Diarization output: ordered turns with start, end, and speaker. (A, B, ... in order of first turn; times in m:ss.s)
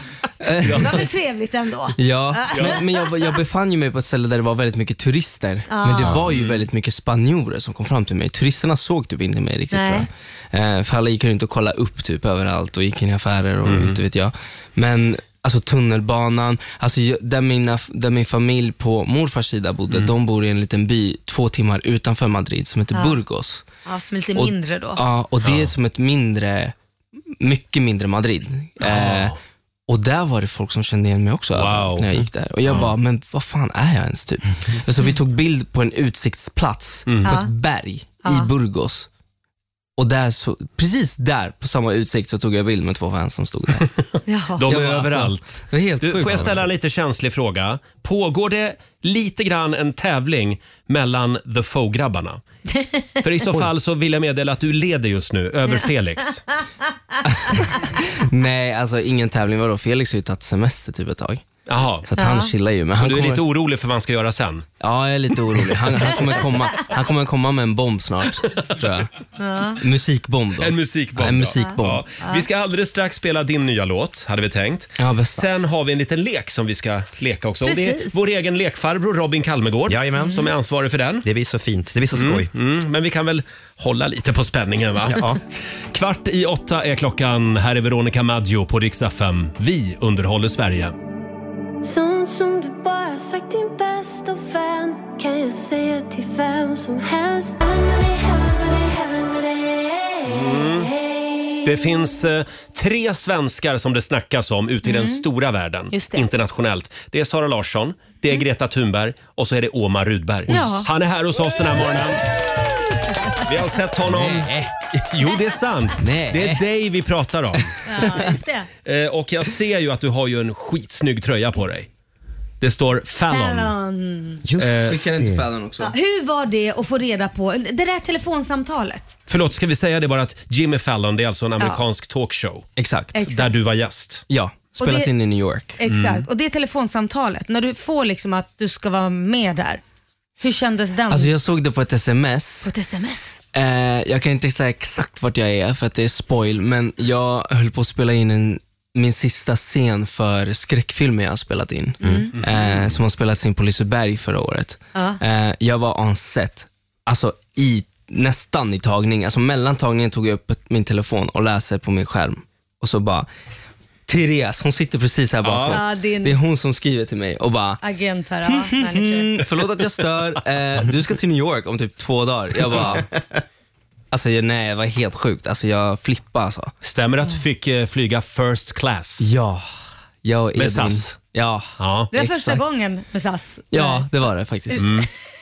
0:00.4-0:01.0 A
0:00.6-0:01.1 B
0:00.7-0:03.0 C
0:02.0-0:23.7 A
0:02.5-0:02.8 B
0:05.7-0:06.2 C
0:06.0-0:06.6 B
0:09.7-0:10.1 C
0:13.6-0:14.0 B
0:22.9-0:23.2 C
0:23.8-0:25.0 C
0:24.4-0:26.7 A
0:25.4-0:25.7 B
0:27.4-0:29.4 A
0:28.8-0:29.4 B
0:29.9-0:39.1 A
0:31.6-0:32.1 B
0:32.7-0:32.9 B
0:37.1-0:37.4 B
0:37.2-0:37.5 C
0:38.2-0:38.5 C
0:40.0-0:43.9 A
0:43.8-0:52.4 B
0:44.3-0:44.7 C
0:44.6-0:46.7 A
0:52.7-0:53.2 C
0:53.2-0:56.4 B
0:57.3-1:01.4 A
1:01.7-1:02.1 B
1:02.1-1:03.4 A
1:02.2-1:02.5 C
1:02.9-1:04.7 B
1:04.8-1:09.1 A
1:08.5-1:08.7 B
1:09.4-1:09.8 C
1:09.8-1:12.0 A
1:10.6-1:21.3 B
1:11.6-1:12.4 C
1:15.0-1:15.5 A
1:17.6-1:18.1 C
1:19.9-1:20.5 D
1:20.2-1:20.5 C
1:21.2-1:22.5 D
1:22.1-1:25.3 B
1:25.1-1:25.4 D
1:25.9-1:30.9 B
1:31.8-1:41.7 E
1:40.3-1:40.9 B
1:41.6-1:52.2 B
1:44.8-1:45.2 C
1:45.9-1:46.3 C
1:50.5-1:50.9 C
1:50.5-1:50.8 A
1:53.4-1:57.8 B
1:54.0-1:54.7 A
1:56.0-1:56.6 A
1:57.8-1:58.7 C
1:58.0-1:58.3 A
1:58.8-2:01.9 B
2:02.6-2:03.7 B
2:03.3-2:04.4 C
2:04.4-2:05.4 D
2:04.6-2:05.0 B
2:04.9-2:05.9 A
2:05.8-2:09.1 C
2:09.3-2:12.7 B
2:12.8-2:13.2 A
2:13.1-2:13.6 C
2:13.3-2:14.2 B
2:14.3-2:15.8 A
2:14.8-2:15.1 C
2:15.8-2:19.8 C
2:15.8-2:16.3 B
2:20.4-2:21.3 C
2:21.1-2:22.7 A
2:22.6-2:23.4 C
2:23.5-2:43.3 A
2:32.0-2:32.3 C
2:32.4-2:32.9 B
2:44.1-2:47.8 A
2:45.4-2:45.8 B
2:45.7-2:46.4 C
2:47.8-2:49.4 C
2:48.4-2:53.1 A
2:54.1-2:56.7 A
2:56.8-2:59.3 B
2:59.2-2:59.7 A
3:00.2-3:02.6 A
3:00.6-3:01.2 B
3:01.8-3:02.1 B
3:02.1-3:04.1 C
3:03.7-3:05.0 A
3:04.7-3:05.0 C
3:04.8-3:05.1 B